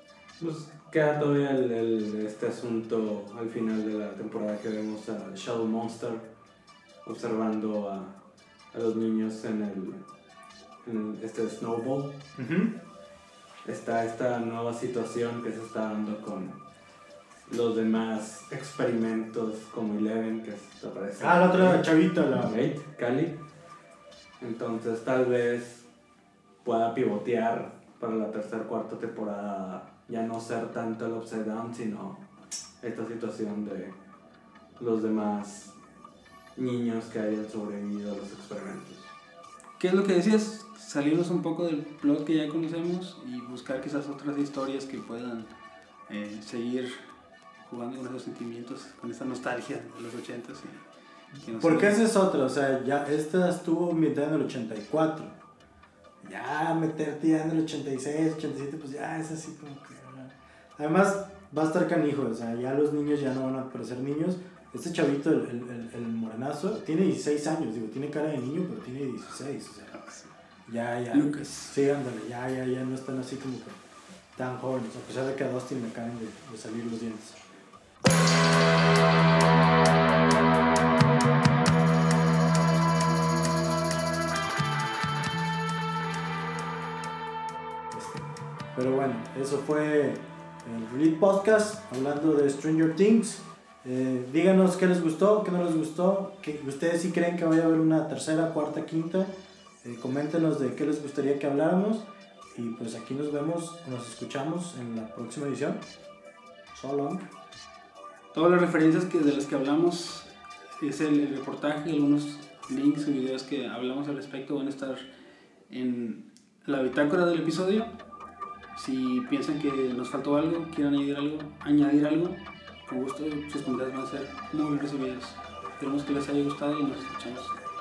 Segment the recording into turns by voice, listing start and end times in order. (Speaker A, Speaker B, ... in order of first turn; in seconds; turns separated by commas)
Speaker A: 0.4-6.3, Speaker A: 7.0-8.2, Speaker A: 8.7-10.0, Speaker A: 10.8-12.2, Speaker B: 12.4-12.8, Speaker A: 13.6-16.6, Speaker A: 17.5-23.4, Speaker B: 21.2-22.6, Speaker A: 24.4-25.9, Speaker A: 26.6-32.2, Speaker A: 32.8-33.9, Speaker A: 34.8-35.7, Speaker A: 36.5-39.1, Speaker C: 39.8-45.5, Speaker C: 46.1-47.0, Speaker C: 47.6-50.8, Speaker C: 51.4-52.0, Speaker B: 51.5-55.3, Speaker B: 56.2-70.1, Speaker B: 70.7-73.8, Speaker C: 71.1-71.8, Speaker B: 74.3-77.4, Speaker B: 87.9-105.8, Speaker B: 106.7-107.2, Speaker C: 108.3-115.0, Speaker C: 115.7-117.9, Speaker C: 118.7-127.6